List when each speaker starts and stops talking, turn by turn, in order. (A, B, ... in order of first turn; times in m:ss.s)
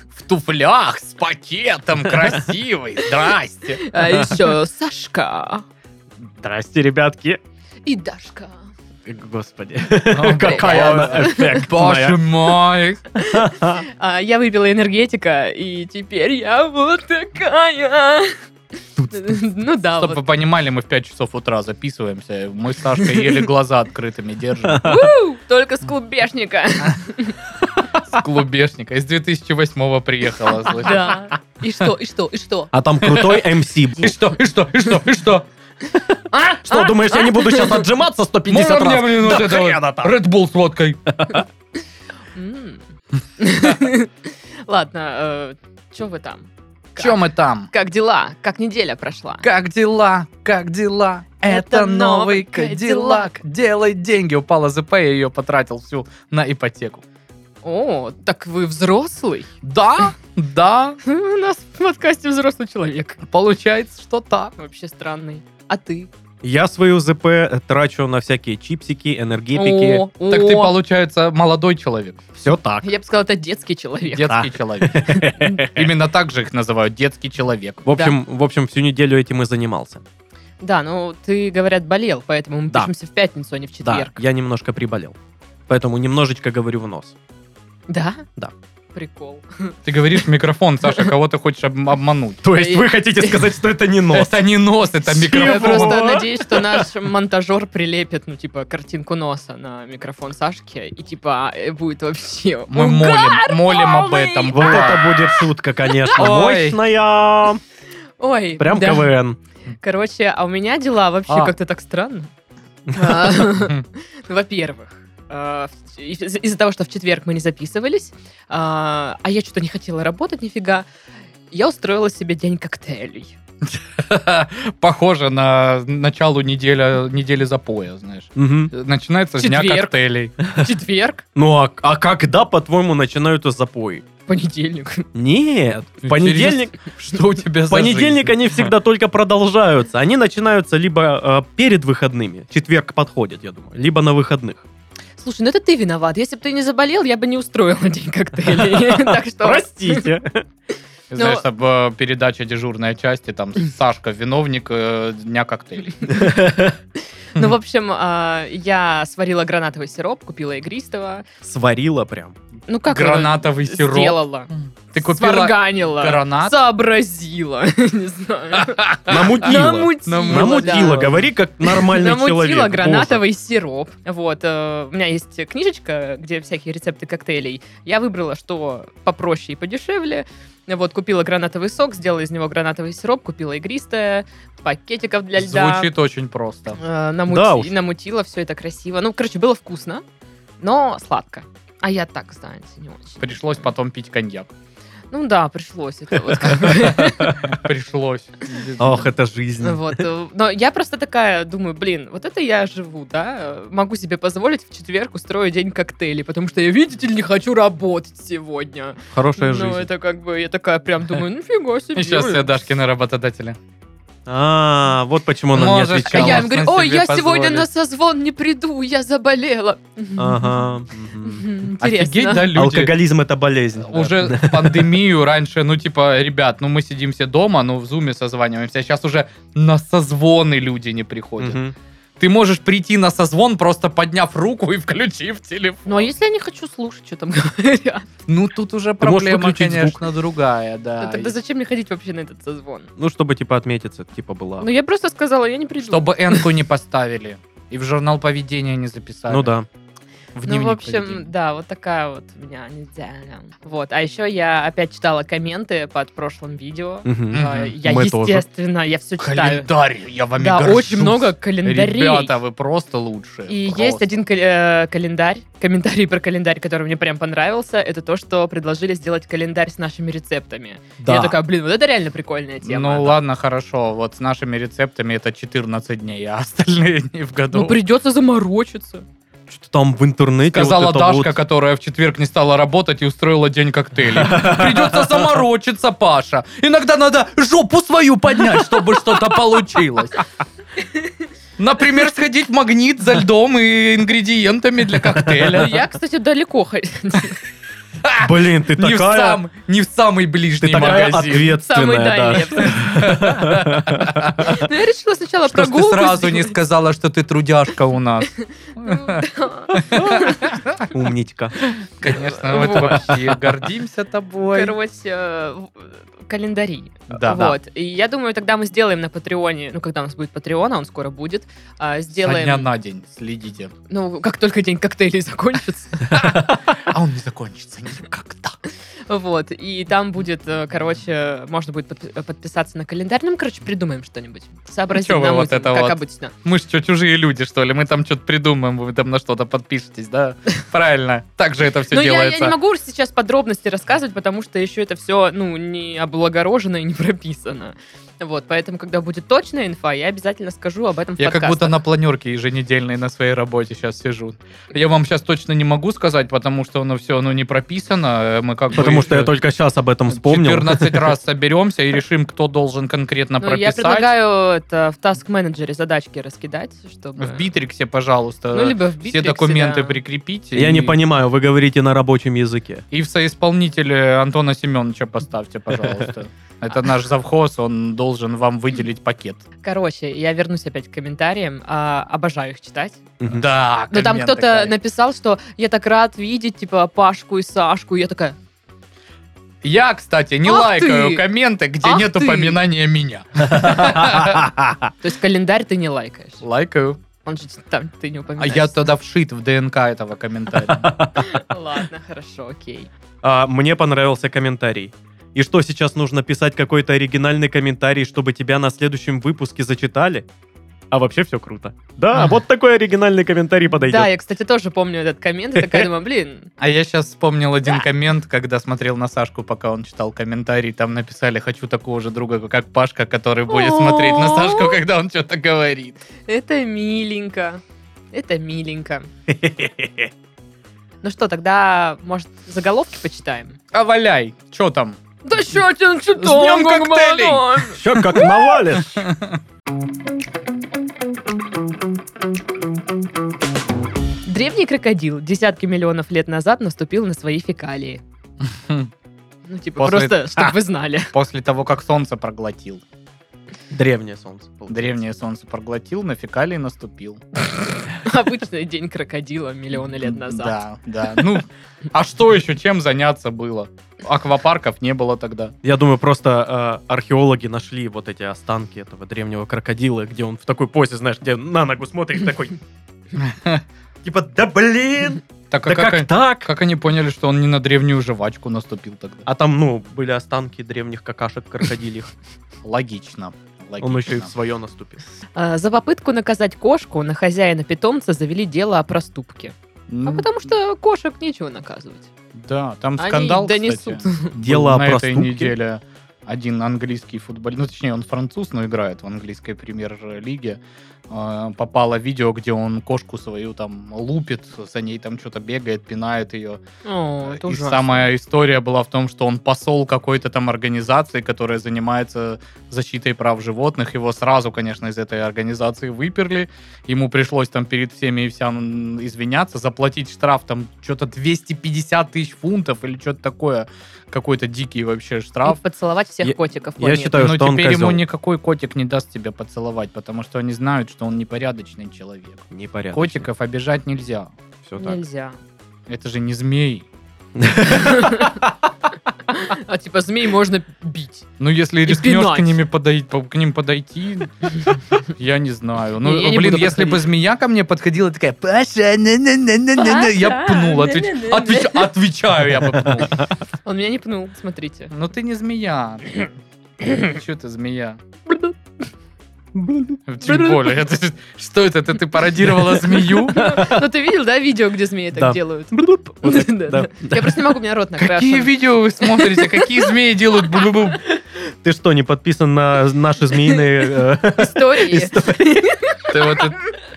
0:00.2-0:03.9 A
0:03.7-0:05.7 B
0:04.0-0:04.5 C
0:06.4-0:07.4 C
0:07.9-0:08.7 B
0:09.1-0:12.2 C
0:10.1-0:13.1 A
0:10.3-0:11.7 B
0:13.2-0:18.4 B
0:13.2-0:13.8 C
0:19.1-0:20.2 B
0:20.0-0:24.9 A
0:24.6-0:25.1 C
0:24.8-0:27.5 B
0:28.0-0:31.2 A
0:30.7-0:32.7 B
0:32.7-0:34.2 C
0:33.1-0:33.5 A
0:34.0-0:35.5 A
0:36.1-0:40.2 C
0:36.3-0:37.8 B
0:38.5-0:41.0 A
0:41.1-0:41.4 C
0:42.3-0:42.8 B
0:43.4-0:49.4 B
0:47.0-0:47.7 A
0:49.4-0:57.0 A
0:51.5-0:53.3 B
0:57.6-0:59.5 B
0:59.6-1:01.0 A
1:01.0-1:03.2 B
1:03.3-1:04.5 A
1:04.6-1:06.1 B
1:06.4-1:10.1 C
1:09.6-1:10.8 B
1:10.3-1:12.3 A
1:12.4-1:12.9 C
1:12.8-1:14.5 B
1:14.1-1:17.9 A
1:14.3-1:15.9 C
1:15.1-1:15.6 B
1:17.8-1:20.0 C
1:20.6-1:24.2 B
1:23.8-1:25.2 C
1:25.7-1:27.1 C
1:27.9-1:28.2 B
1:28.9-1:29.8 B
1:29.8-1:32.4 A
1:32.4-1:34.4 C
1:32.5-1:33.5 B
1:34.1-1:36.1 A
1:35.1-1:36.9 C
1:35.1-1:45.4 B
1:42.7-1:45.1 A
1:44.5-1:47.6 C
1:46.2-1:46.8 A
1:48.2-1:49.1 B
1:48.6-1:49.4 C
1:49.8-1:52.3 B
1:52.9-2:00.9 B
2:01.5-2:03.4 B
2:03.8-2:10.4 A
2:08.4-2:08.7 C
2:09.4-2:11.2 B
2:11.4-2:14.0 C
2:14.3-2:15.1 B
2:15.1-2:16.8 C
2:16.0-2:18.7 A
2:17.7-2:24.6 C
2:25.2-2:30.1 B
2:28.5-2:30.4 C
2:31.1-2:36.1 A
2:31.2-2:31.4 B
2:36.1-2:36.8 C
2:37.4-2:41.2 B
2:41.4-2:42.4 C
2:42.7-3:05.9 B
2:42.9-2:46.6 A
2:48.6-2:49.6 A
2:49.1-2:53.2 C
2:50.1-2:51.2 A
3:05.4-3:06.8 A
3:06.8-3:10.0 B
3:07.3-3:07.7 C
3:10.6-3:13.7 B
3:13.2-3:14.5 A
3:15.1-3:17.4 B
3:16.4-3:17.6 C
3:17.4-3:19.1 A
3:18.8-3:20.1 C
3:19.6-3:32.5 B
3:29.1-3:29.9 C
3:32.0-3:33.6 A
3:34.3-3:36.5 C
3:35.5-3:37.7 A
3:36.1-3:40.7 B
3:40.2-3:41.5 C
3:41.2-3:42.5 B
3:41.8-3:43.0 A
3:42.5-3:44.9 C
3:43.9-3:51.6 A
3:51.4-3:51.8 C
3:52.2-3:56.1 A
3:55.9-3:58.1 B
3:58.3-4:01.3 A
3:59.0-4:00.0 C
4:01.0-4:02.9 B
4:03.0-4:04.7 C
4:04.6-4:06.5 B
4:05.8-4:09.5 A
4:09.3-4:09.7 C
4:10.4-4:11.3 A
4:10.4-4:19.7 B
4:17.0-4:18.5 C
4:17.3-4:17.8 A
4:19.2-4:24.2 A
4:20.4-4:22.4 B
4:23.5-4:33.2 B
4:31.0-4:31.4 C
4:32.6-4:37.8 A
4:37.5-4:39.0 B
4:39.5-4:41.4 C
4:40.5-4:50.2 A
4:44.2-4:45.3 C
4:51.6-4:55.8 A
4:55.1-4:55.5 C
4:55.5-4:57.4 B
4:58.0-5:01.5 A
4:58.2-4:59.4 C
5:00.6-5:04.6 C
5:01.1-5:03.1 B
5:02.7-5:04.6 A
5:04.4-5:06.6 B
5:05.5-5:10.8 A
5:08.3-5:10.6 B
5:10.0-5:10.3 C
5:10.9-5:11.6 C
5:11.7-5:13.2 B
5:12.0-5:14.8 A
5:14.4-5:22.7 B
5:17.1-5:17.6 A
5:22.2-5:23.7 A
5:23.9-5:26.2 B
5:26.1-5:28.6 A
5:29.1-5:36.3 B
5:34.9-5:42.6 A
5:41.9-5:51.8 B
5:51.2-5:59.3 A
5:58.7-6:01.1 C
6:00.1-6:04.1 A
6:03.4-6:07.5 B
6:07.2-6:11.0 A
6:08.5-6:10.0 B
6:10.6-6:12.8 C
6:12.9-6:19.4 A
6:19.6-6:23.0 B
6:23.2-6:23.5 C
6:23.3-6:24.8 A
6:23.9-6:28.4 B
6:29.6-6:34.8 A
6:30.5-6:31.2 B
6:31.8-6:32.6 B
6:33.6-6:34.4 C
6:35.0-6:36.4 B
6:36.4-6:37.0 A
6:37.2-6:38.8 B
6:38.4-6:41.0 A
6:40.6-6:41.3 C
6:41.2-6:42.9 B
6:43.2-6:50.3 C
6:50.9-6:54.1 C
6:53.8-6:56.5 B
6:55.6-6:55.9 C
6:56.6-7:06.0 A
7:03.5-7:04.8 B
7:06.3-7:07.6 B
7:08.1-7:09.1 B
7:09.3-7:10.1 C
7:11.0-7:13.6 B
7:13.7-7:15.0 A
7:15.2-7:17.8 B
7:16.2-7:18.2 A
7:17.8-7:19.1 C
7:18.8-7:19.4 A
7:24.3-7:28.0 B
7:28.5-7:28.9 A
7:29.5-7:31.1 B
7:29.8-7:30.5 A
7:31.1-7:32.8 A
7:33.7-7:35.0 C
7:34.7-7:37.2 A
7:38.0-7:40.6 B
7:39.9-7:45.5 A
7:45.6-7:52.6 C
7:53.2-7:53.6 A
7:54.0-7:56.5 C
7:55.5-7:59.3 A
7:59.3-8:02.1 C
8:02.6-8:04.3 A
8:03.8-8:05.0 C
8:05.4-8:12.1 B
8:09.9-8:10.4 A
8:12.4-8:26.6 A
8:13.0-8:14.3 B
8:14.4-8:15.5 C
8:26.8-8:28.1 B
8:27.2-8:45.6 A
8:45.4-8:47.2 B
8:46.2-8:48.0 C
8:47.2-8:54.3 A
8:52.5-8:53.3 C
8:54.6-8:55.0 C
8:54.8-8:55.4 B
8:55.9-8:56.8 A
8:57.4-8:58.4 C
8:57.6-8:58.4 B
8:59.3-9:01.2 B
9:01.4-9:04.4 A
9:01.9-9:02.6 B
9:05.1-9:13.3 A
9:06.0-9:07.1 B
9:09.8-9:11.9 B
9:12.8-9:13.2 C
9:13.6-9:14.9 B
9:14.9-9:16.3 A
9:16.9-9:18.0 A
9:19.5-9:20.0 C
9:20.1-9:23.4 A
9:20.3-9:20.6 B
9:23.3-9:29.8 B
9:23.4-9:23.8 C
9:25.2-9:27.4 C
9:28.0-9:31.0 A
9:31.6-9:35.7 C
9:34.3-9:36.1 B
9:36.1-9:36.7 A